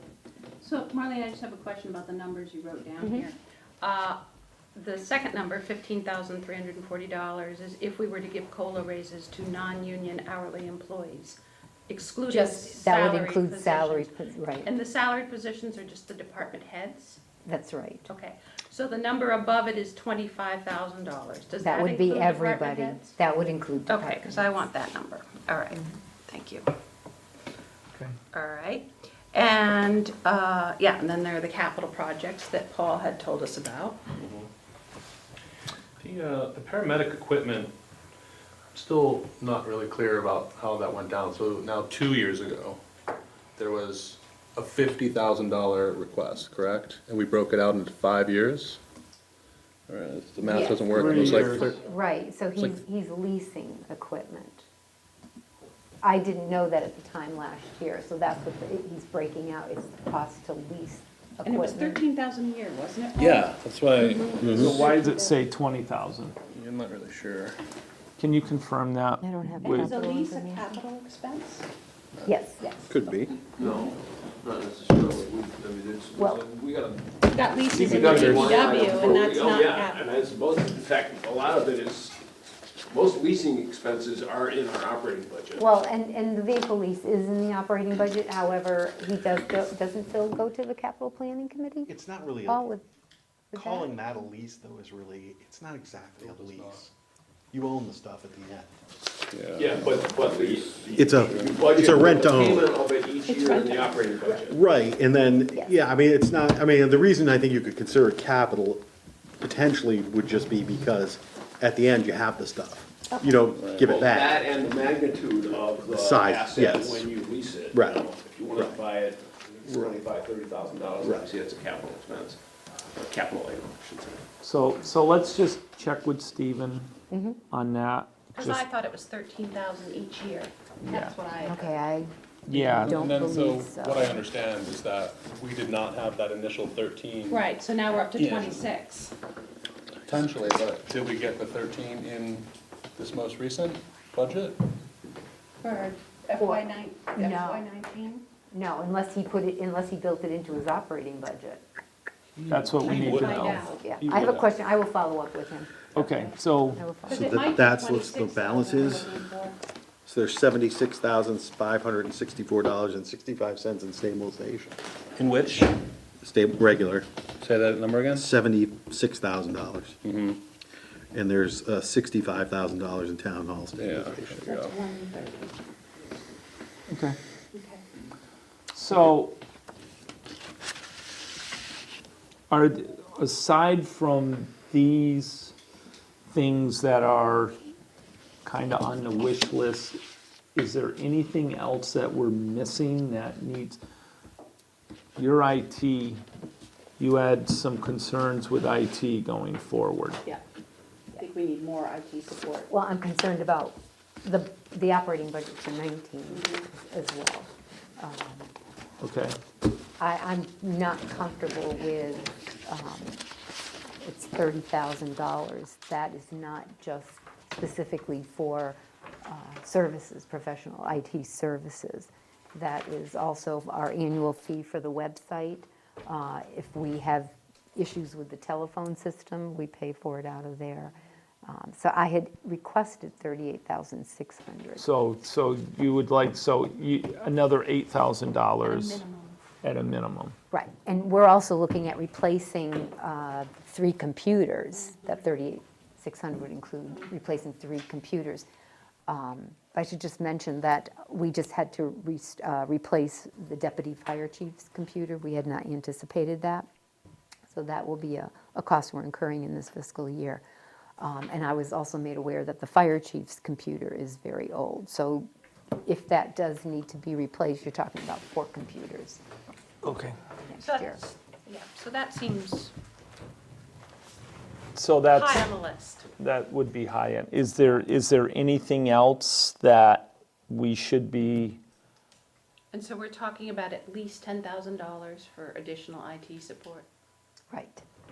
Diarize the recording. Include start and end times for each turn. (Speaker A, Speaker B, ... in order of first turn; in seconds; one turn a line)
Speaker A: 0.6-4.2
Speaker B: 3.0-3.3
Speaker A: 4.8-14.1
Speaker B: 12.3-14.7
Speaker A: 14.6-17.2
Speaker B: 17.4-18.1
Speaker A: 18.1-23.1
Speaker B: 21.6-24.5
Speaker A: 23.9-26.7
Speaker A: 28.3-34.0
Speaker C: 34.1-34.5
Speaker C: 36.0-37.7
Speaker C: 38.7-42.8
Speaker C: 43.6-48.8
Speaker C: 49.9-51.8
Speaker B: 50.4-54.7
Speaker D: 51.0-51.7
Speaker B: 56.0-62.0
Speaker A: 61.5-63.6
Speaker C: 63.2-64.7
Speaker B: 64.1-64.5
Speaker E: 64.4-64.7
Speaker D: 64.5-66.4
Speaker A: 64.6-65.3
Speaker C: 66.5-67.6
Speaker D: 68.2-69.9
Speaker B: 69.2-70.8
Speaker A: 69.6-71.7
Speaker B: 72.2-72.9
Speaker E: 72.9-73.3
Speaker F: 73.6-82.2
Speaker A: 73.6-73.9
Speaker B: 76.2-76.4
Speaker A: 77.3-80.1
Speaker D: 77.7-78.6
Speaker C: 78.2-78.5
Speaker F: 82.9-85.7
Speaker B: 85.6-91.9
Speaker E: 91.9-92.7
Speaker B: 92.5-92.8
Speaker B: 93.5-94.0
Speaker E: 93.6-96.9
Speaker C: 96.2-96.8
Speaker E: 97.5-98.7
Speaker C: 99.3-99.7
Speaker F: 99.6-104.6
Speaker C: 100.3-100.7
Speaker E: 101.0-102.7
Speaker A: 103.3-104.0
Speaker E: 104.5-108.8
Speaker E: 109.4-114.4
Speaker A: 113.1-113.4
Speaker C: 113.5-113.9
Speaker F: 113.8-122.4
Speaker E: 115.9-117.1
Speaker E: 117.7-118.8
Speaker E: 119.7-120.0
Speaker F: 123.0-124.2
Speaker D: 124.4-126.9
Speaker B: 127.1-127.4
Speaker D: 127.5-128.6
Speaker A: 128.3-131.8
Speaker D: 130.8-131.2
Speaker B: 131.4-134.3
Speaker D: 132.5-133.0
Speaker C: 132.5-137.5
Speaker A: 137.3-139.1
Speaker C: 138.2-138.7
Speaker C: 140.1-144.6
Speaker A: 145.6-148.2
Speaker B: 146.4-147.7
Speaker B: 148.5-151.6
Speaker C: 152.4-154.5
Speaker D: 152.5-153.8
Speaker A: 152.8-153.8
Speaker B: 153.8-157.3
Speaker D: 155.9-156.8
Speaker A: 157.1-159.6
Speaker E: 157.1-159.1
Speaker E: 160.1-164.8
Speaker C: 165.2-165.8
Speaker E: 166.2-167.1
Speaker C: 167.4-168.3
Speaker E: 168.1-170.0
Speaker C: 170.0-170.4
Speaker E: 171.1-174.5
Speaker C: 173.8-174.8
Speaker A: 174.4-175.6
Speaker D: 176.9-177.2
Speaker A: 177.5-177.8
Speaker D: 178.7-179.4
Speaker D: 182.5-185.5
Speaker D: 186.3-187.6
Speaker D: 188.4-190.0
Speaker D: 190.6-193.8
Speaker D: 195.2-196.2
Speaker D: 197.0-200.2
Speaker A: 201.1-202.7
Speaker B: 202.7-208.5
Speaker A: 206.3-206.6
Speaker D: 209.0-209.4
Speaker B: 210.0-213.2
Speaker B: 214.0-234.9
Speaker D: 234.8-239.0
Speaker A: 238.6-239.4
Speaker D: 239.6-240.3
Speaker B: 240.5-248.5
Speaker B: 249.1-256.7
Speaker B: 257.5-260.4
Speaker B: 261.0-265.3
Speaker B: 265.9-269.2
Speaker D: 269.8-270.2
Speaker B: 270.5-271.0
Speaker A: 270.6-272.7
Speaker D: 274.8-275.5
Speaker A: 275.1-276.1
Speaker D: 276.2-281.6
Speaker A: 282.7-286.9
Speaker B: 287.5-287.8